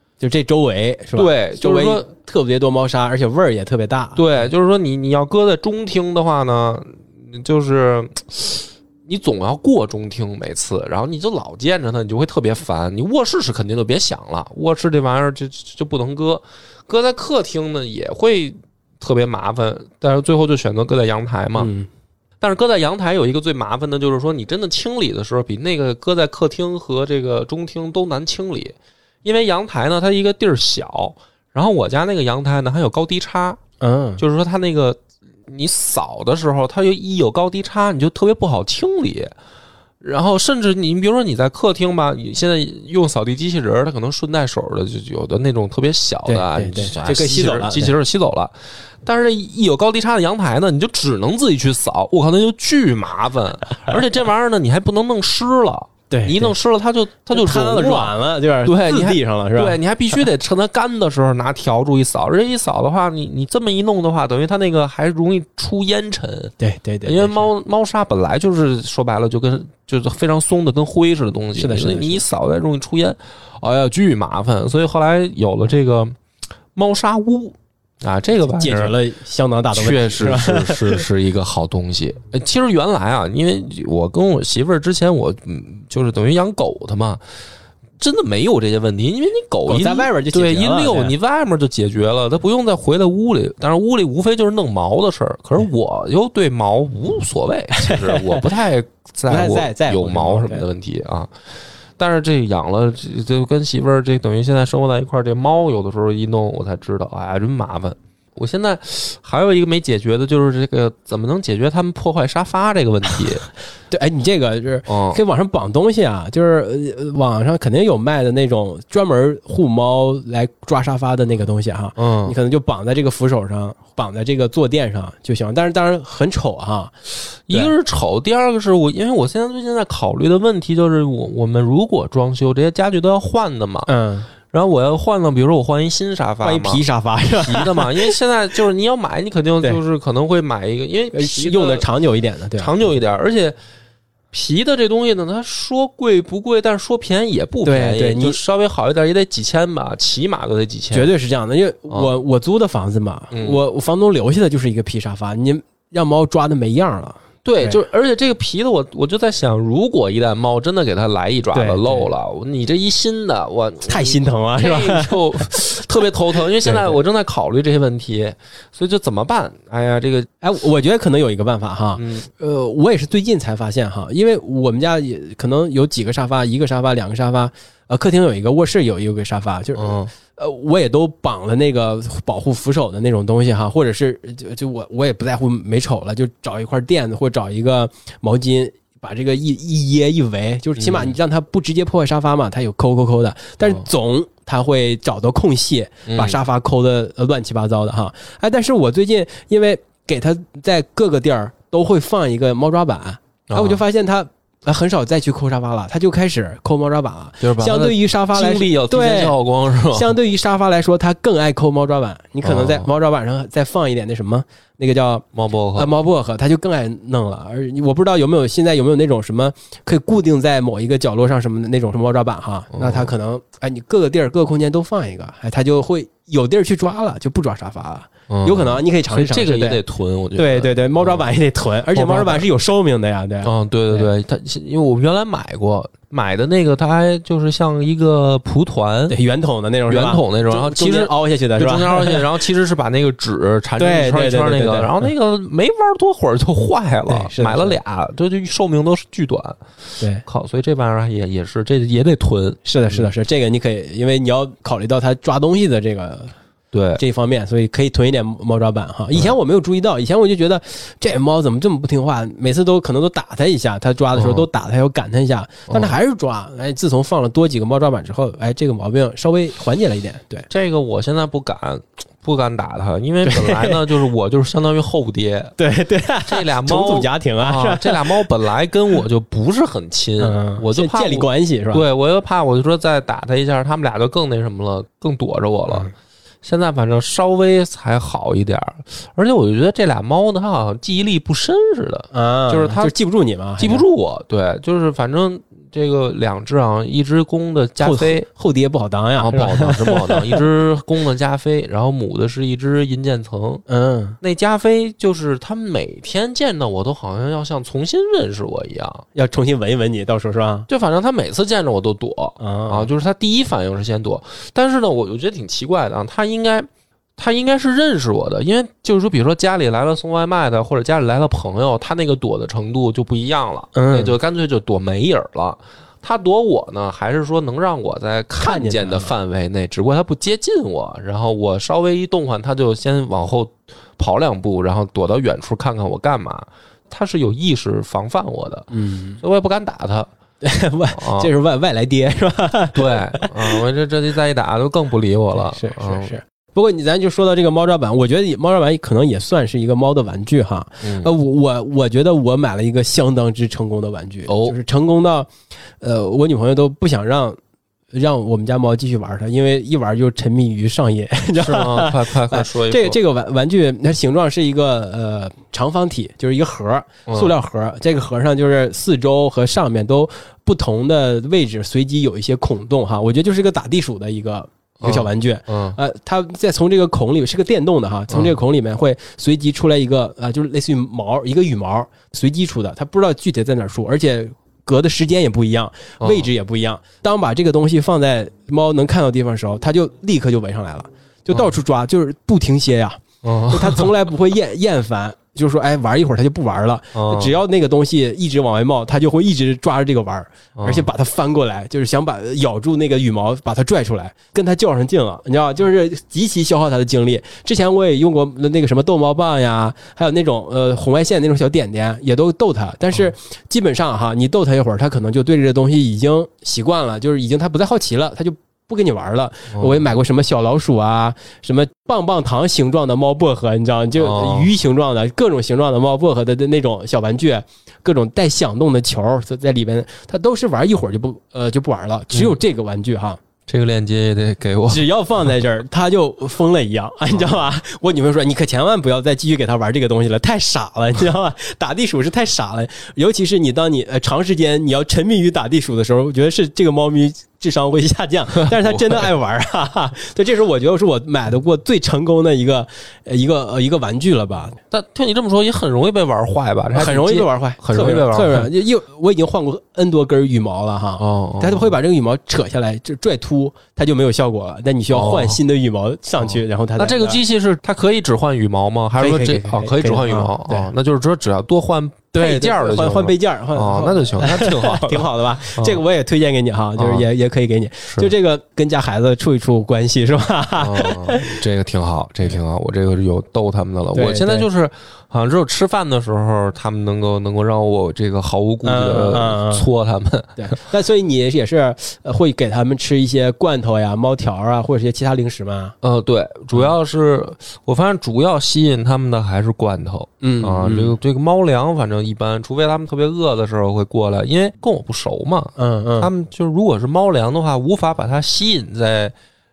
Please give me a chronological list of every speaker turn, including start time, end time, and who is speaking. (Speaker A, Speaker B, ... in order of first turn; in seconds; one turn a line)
Speaker A: 0.2-4.3
Speaker B: 1.1-2.1
Speaker B: 4.2-21.7
Speaker A: 21.6-21.9
Speaker B: 22.4-33.6
Speaker A: 33.8-34.2
Speaker B: 34.2-39.3
Speaker B: 40.0-76.2
Speaker A: 46.3-47.9
Speaker A: 56.1-56.5
Speaker A: 57.3-59.8
Speaker A: 66.6-67.5
Speaker A: 71.6-72.2
Speaker B: 76.7-79.0
Speaker A: 78.4-81.1
Speaker B: 79.7-87.2
Speaker B: 88.0-113.5
Speaker A: 89.7-91.1
Speaker A: 97.8-98.5
Speaker A: 99.3-100.7
Speaker A: 113.9-126.9
Speaker B: 114.9-115.2
Speaker B: 122.0-122.3
Speaker B: 127.5-133.9
Speaker A: 133.9-134.3
Speaker B: 134.5-136.8
Speaker A: 136.4-138.2
Speaker B: 137.4-141.9
Speaker A: 141.1-142.7
Speaker B: 142.6-143.6
Speaker B: 144.3-151.1
Speaker A: 147.6-148.4
Speaker A: 150.9-157.8
Speaker B: 153.3-153.6
Speaker B: 157.4-170.3
Speaker A: 161.5-162.1
Speaker A: 163.8-165.6
Speaker A: 166.6-167.0
Speaker A: 170.4-209.4
Speaker B: 171.9-172.3
Speaker B: 179.8-180.1
Speaker B: 190.8-191.2
Speaker B: 196.1-196.4
Speaker B: 203.5-203.8
Speaker B: 207.4-210.1
Speaker A: 209.9-229.8
Speaker B: 212.4-212.9
Speaker B: 215.3-215.9
Speaker B: 222.7-223.1
Speaker B: 228.3-231.3
Speaker A: 230.4-234.1
Speaker B: 231.9-232.4
Speaker B: 233.4-239.2
Speaker A: 239.1-242.3
Speaker B: 239.9-253.1
Speaker A: 243.8-245.1
Speaker A: 247.1-247.8
Speaker A: 250.0-250.2
Speaker A: 252.6-256.3
Speaker B: 256.7-257.0
Speaker A: 257.0-270.5
Speaker B: 264.1-264.5
Speaker B: 265.7-265.9
Speaker B: 270.5-275.6
Speaker A: 273.2-273.9
Speaker A: 275.6-278.3
Speaker B: 276.2-285.9
Speaker A: 280.2-281.8
Speaker B: 286.4-292.9
Speaker A: 292.1-293.9
Speaker B: 293.6-298.3
Speaker A: 297.8-300.4
Speaker B: 299.2-303.6
Speaker A: 303.7-304.2
Speaker B: 304.2-309.1
Speaker A: 309.1-310.7
Speaker B: 310.7-338.7
Speaker A: 312.4-312.9
Speaker A: 323.7-324.1
Speaker A: 328.4-329.1
Speaker A: 338.7-339.2
Speaker B: 339.2-340.1
Speaker A: 340.4-343.6
Speaker B: 340.9-341.3
Speaker B: 342.7-346.1
Speaker A: 345.3-357.4
Speaker B: 350.8-351.1
Speaker B: 354.3-354.6
Speaker A: 357.9-433.2
Speaker B: 361.4-363.0
Speaker B: 367.1-367.3
Speaker B: 374.8-375.8
Speaker B: 386.0-386.3
Speaker B: 393.2-393.9
Speaker B: 396.9-397.4
Speaker B: 400.6-400.9
Speaker B: 419.5-419.8
Speaker B: 424.0-424.5
Speaker B: 432.1-432.4
Speaker B: 433.5-434.9
Speaker A: 434.7-454.6
Speaker B: 437.1-437.4
Speaker B: 448.4-449.1
Speaker B: 454.7-458.5
Speaker A: 456.7-467.2
Speaker B: 461.0-461.7
Speaker B: 464.9-465.4
Speaker B: 466.2-475.8
Speaker A: 469.0-470.7
Speaker A: 472.1-481.4
Speaker B: 476.8-477.1
Speaker B: 480.6-490.5
Speaker A: 483.9-484.5
Speaker A: 488.6-489.6
Speaker A: 490.4-495.8
Speaker B: 495.8-509.1
Speaker A: 500.2-500.9
Speaker A: 505.6-506.1